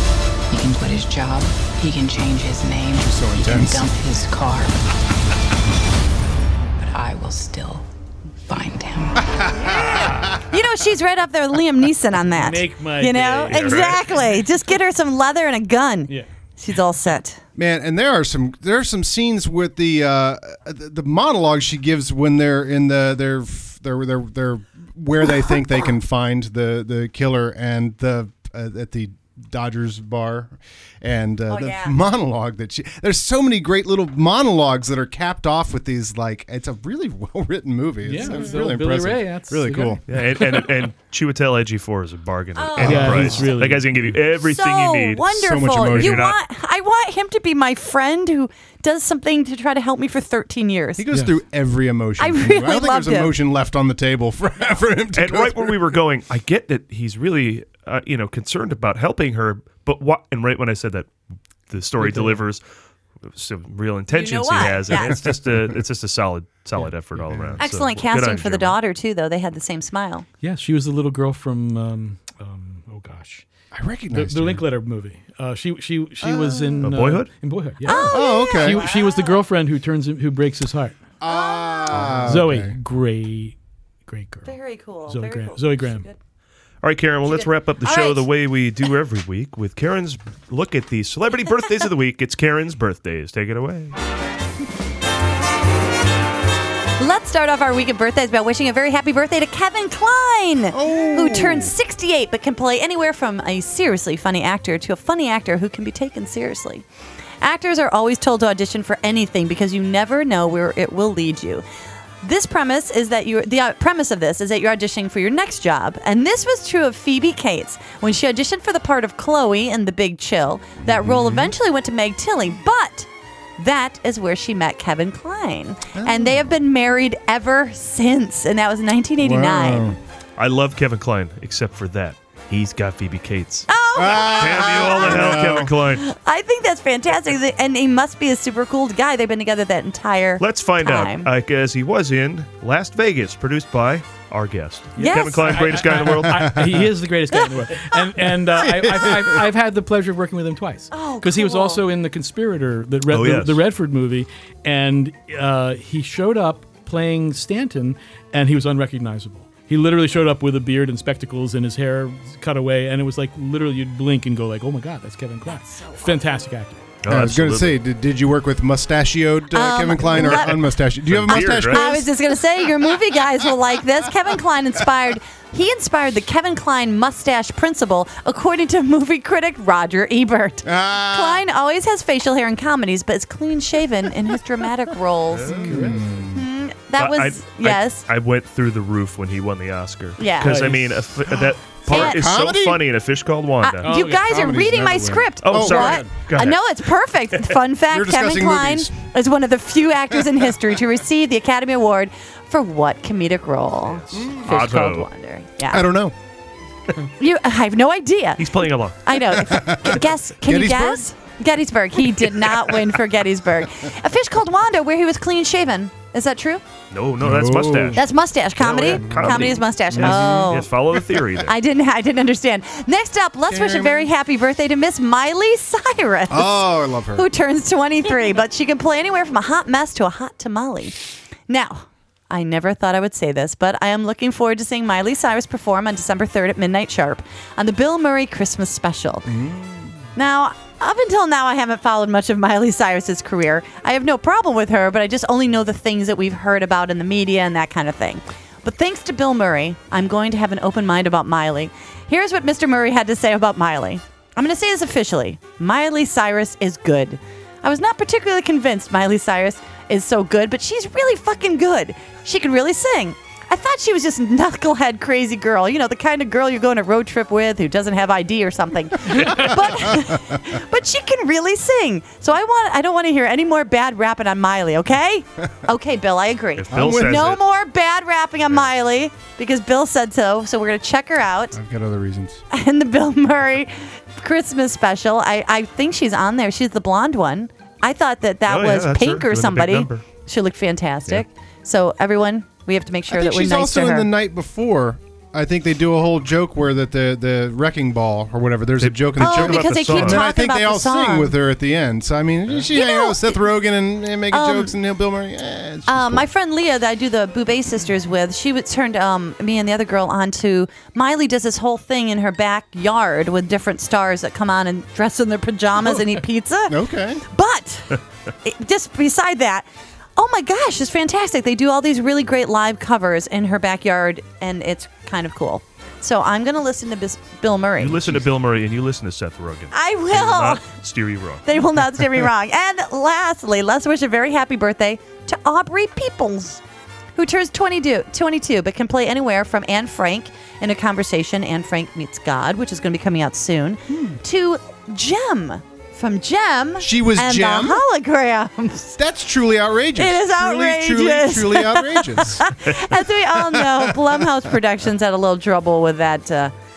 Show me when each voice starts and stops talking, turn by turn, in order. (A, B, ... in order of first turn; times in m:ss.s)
0:00.5-0:04.8 A
0:02.9-0:03.9 B
0:06.8-0:07.8 A
0:08.4-0:09.3 A
0:09.2-0:10.4 B
0:10.5-0:17.4 C
0:12.2-0:14.0 D
0:13.5-0:14.0 E
0:17.6-0:40.0 B
0:31.5-0:32.0 C
0:38.0-0:40.6 D
0:38.2-0:38.6 C
0:40.1-0:45.4 E
0:42.6-0:43.3 C
0:42.8-0:43.8 B
0:42.8-0:44.2 D
0:44.5-0:51.0 C
0:45.3-0:46.3 B
0:45.9-0:46.4 E
0:51.0-0:55.8 B
0:51.1-0:51.4 D
0:52.2-0:53.3 C
0:55.1-1:01.1 E
1:01.7-1:02.6 E
1:02.0-1:02.4 D
1:03.3-1:08.8 E
1:04.1-1:05.1 C
1:06.8-1:07.6 D
1:07.6-1:10.2 C
1:10.4-1:13.4 D
1:13.7-1:14.6 B
1:14.1-1:21.0 D
1:16.2-1:16.6 B
1:16.4-1:16.8 C
1:16.8-1:17.3 E
1:17.8-1:19.4 C
1:17.9-1:18.8 B
1:21.2-1:22.8 B
1:21.3-1:22.2 C
1:22.1-1:23.6 D
1:24.1-1:24.5 D
1:24.4-1:26.2 C
1:25.1-1:26.1 D
1:26.8-1:33.9 E
1:27.3-1:28.3 C
1:37.0-1:46.8 C
1:40.7-1:41.8 B
1:47.4-1:51.6 C
1:52.2-2:09.9 C
2:00.8-2:01.5 B
2:05.9-2:06.5 B
2:09.2-2:10.0 B
2:10.4-2:13.7 E
2:13.7-2:21.3 C
2:14.0-2:15.7 B
2:14.2-2:16.0 E
2:20.4-2:26.8 E
2:25.0-2:25.8 C
2:25.0-2:47.0 D
2:26.0-2:26.8 B
2:28.5-2:29.4 B
2:30.9-2:31.8 C
2:33.1-2:33.6 E
2:45.4-2:46.2 C
2:47.0-2:47.8 E
2:47.1-2:52.0 B
2:49.5-2:50.6 C
2:50.2-2:51.8 E
2:51.3-3:05.7 C
3:00.6-3:01.4 B
3:05.4-3:06.4 B
3:05.5-3:06.2 D
3:06.3-3:08.0 C
3:07.0-3:13.9 E
3:10.2-3:10.6 C
3:10.4-3:11.0 D
3:11.4-3:12.8 B
3:11.9-3:12.2 C
3:13.6-3:25.8 C
3:13.8-3:14.7 D
3:14.1-3:16.1 B
3:15.4-3:16.9 E
3:17.9-3:18.9 B
3:23.9-3:25.1 E
3:24.1-3:24.6 B
3:25.7-3:26.1 B
3:27.2-3:36.6 C
3:28.4-3:29.2 E
3:29.4-3:31.0 B
3:36.9-3:38.0 E
3:37.2-3:38.0 B
3:37.9-3:40.7 C
3:38.6-3:41.5 E
3:38.9-3:41.2 B
3:41.4-3:50.9 C
3:43.5-3:44.1 B
3:46.3-3:47.3 B
3:51.5-3:59.3 C
3:59.2-4:00.0 B
4:00.1-4:41.6 C
4:29.1-4:30.4 B
4:36.6-4:37.4 E
4:36.7-4:37.3 B
4:41.5-4:42.4 B
4:42.5-4:54.1 C
4:48.5-4:50.0 E
4:53.1-5:06.2 B
4:58.8-5:00.2 E
4:59.2-5:01.3 C
5:02.7-5:03.4 C
5:04.3-5:04.7 C
5:05.8-5:28.2 C
5:16.7-5:17.2 B
5:27.8-5:31.4 E
5:29.7-5:30.6 C
5:31.4-5:36.6 C
5:37.1-5:49.0 C
5:43.9-5:44.2 B
5:46.8-5:47.8 B
5:49.0-5:52.5 B
5:50.0-5:56.5 C
5:53.4-5:54.2 B